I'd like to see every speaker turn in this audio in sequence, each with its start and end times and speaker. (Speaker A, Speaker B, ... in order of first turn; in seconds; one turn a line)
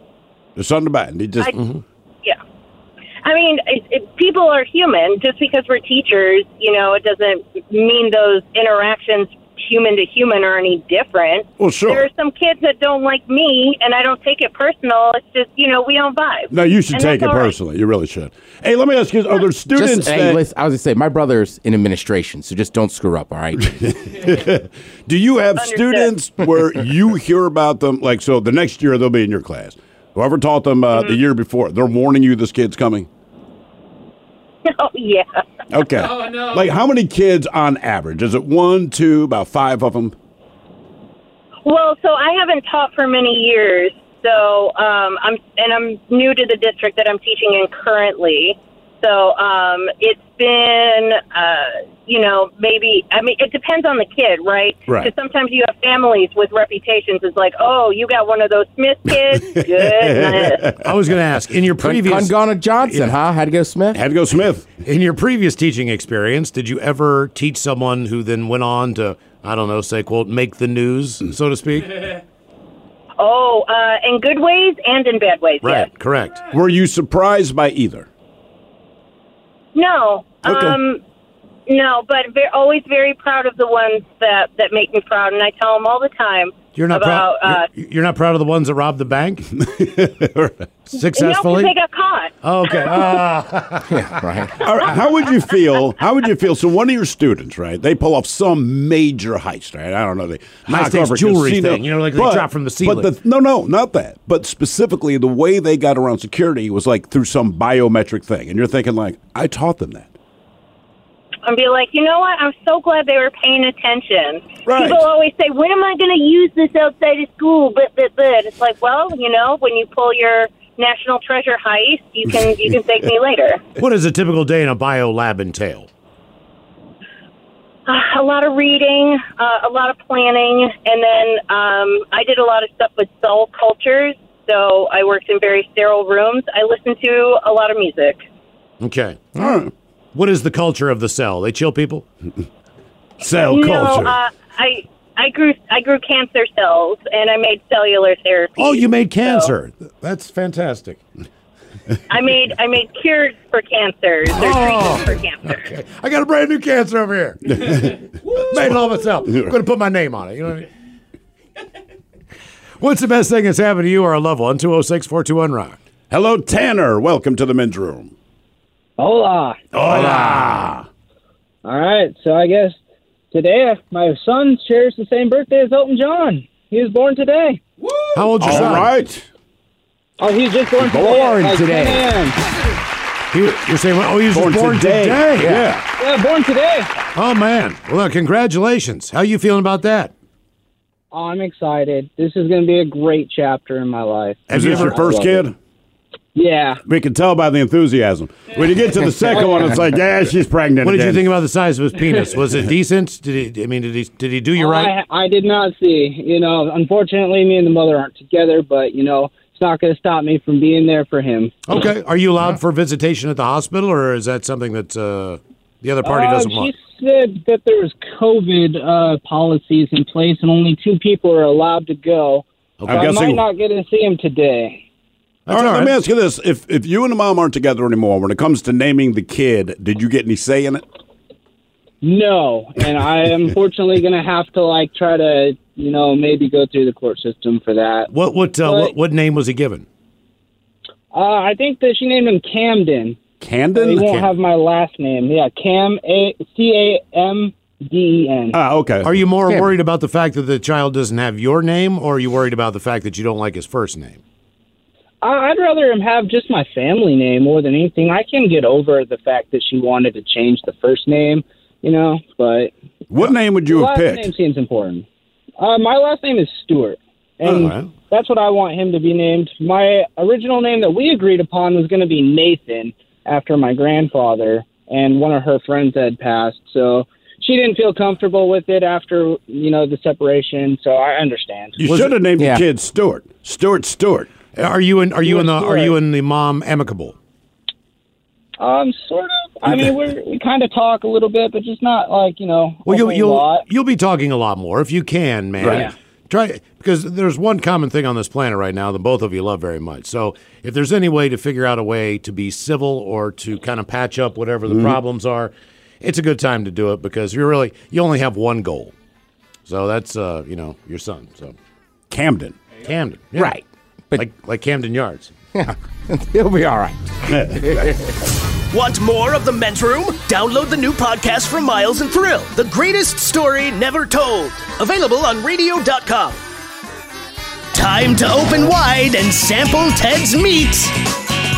Speaker A: 0.6-1.5
Speaker B: 3.2-17.5
Speaker A: 11.6-12.1
Speaker A: 16.5-20.4
Speaker C: 19.7-23.6
Speaker A: 23.6-33.1
Speaker B: 25.6-26.1
Speaker B: 34.6-35.4
Speaker A: 35.7-40.1
Speaker B: 41.6-60.6
Speaker A: 54.9-55.1
Speaker A: 59.3-60.9
Speaker D: 60.7-63.2
Speaker C: 61.8-64.0
Speaker A: 63.9-64.7
Speaker D: 64.8-72.2
Speaker B: 73.2-75.9
Speaker D: 75.6-76.5
Speaker A: 76.5-78.1
Speaker B: 79.7-81.0
Speaker A: 80.4-80.8
Speaker B: 81.7-87.7
Speaker D: 86.7-89.5
Speaker A: 89.6-90.7
Speaker D: 90.9-91.7
Speaker B: 91.0-93.2
Speaker D: 92.4-94.2
Speaker C: 93.9-94.5
Speaker A: 94.6-110.1
Speaker D: 100.7-103.1
Speaker B: 111.4-123.6
Speaker A: 114.7-115.0
Speaker D: 123.8-125.9
Speaker B: 127.9-138.2
Speaker D: 138.8-139.6
Speaker A: 139.3-139.7
Speaker D: 140.1-142.0
Speaker A: 143.2-144.2
Speaker B: 143.5-149.5
Speaker D: 148.6-151.0
Speaker B: 152.1-155.7
Speaker D: 154.3-160.7
Speaker A: 157.5-159.5
Speaker D: 162.8-165.8
Speaker A: 166.1-168.1
Speaker E: 169.0-169.7
Speaker D: 169.7-170.6
Speaker A: 169.7-170.8
Speaker E: 171.6-172.8
Speaker E: 173.3-177.6
Speaker D: 178.1-178.9
Speaker A: 178.4-179.3
Speaker E: 180.2-182.4
Speaker A: 180.8-181.2
Speaker C: 180.8-182.1
Speaker D: 183.3-185.7
Speaker A: 184.3-185.8
Speaker E: 186.0-186.9
Speaker D: 187.2-190.1
Speaker E: 191.1-195.4
Speaker D: 194.5-195.2
Speaker A: 194.5-195.5
Speaker E: 196.3-196.8
Speaker A: 196.8-201.3
Speaker E: 199.3-199.7
Speaker D: 200.8-204.9
Speaker E: 204.6-211.5
Speaker D: 211.7-216.7
Speaker E: 216.0-224.8
Speaker D: 222.8-223.3
Speaker A: 222.8-223.4
Speaker D: 225.4-226.0
Speaker A: 225.5-230.8
Speaker E: 232.0-238.1
Speaker D: 238.1-239.8
Speaker E: 238.6-238.9
Speaker E: 241.1-243.2
Speaker A: 243.4-244.3
Speaker E: 243.7-248.6
Speaker D: 244.0-244.3
Speaker A: 248.5-249.2
Speaker D: 249.0-254.2
Speaker C: 249.5-249.7
Speaker E: 255.2-262.7
Speaker A: 263.1-264.3
Speaker E: 263.6-265.1
Speaker E: 265.6-281.8
Speaker D: 267.4-267.9
Speaker A: 281.8-284.3
Speaker D: 281.8-282.1
Speaker C: 282.4-282.6
Speaker D: 284.5-287.1
Speaker E: 285.2-285.9
Speaker E: 288.6-293.6
Speaker D: 292.9-308.9
Speaker A: 295.6-295.9
Speaker A: 304.7-305.0
Speaker D: 309.6-311.5
Speaker A: 312.1-312.6
Speaker D: 312.8-313.6
Speaker C: 313.3-314.3
Speaker D: 314.1-315.3
Speaker C: 315.5-318.0
Speaker A: 317.3-317.8
Speaker F: 318.7-326.4
Speaker F: 327.7-330.9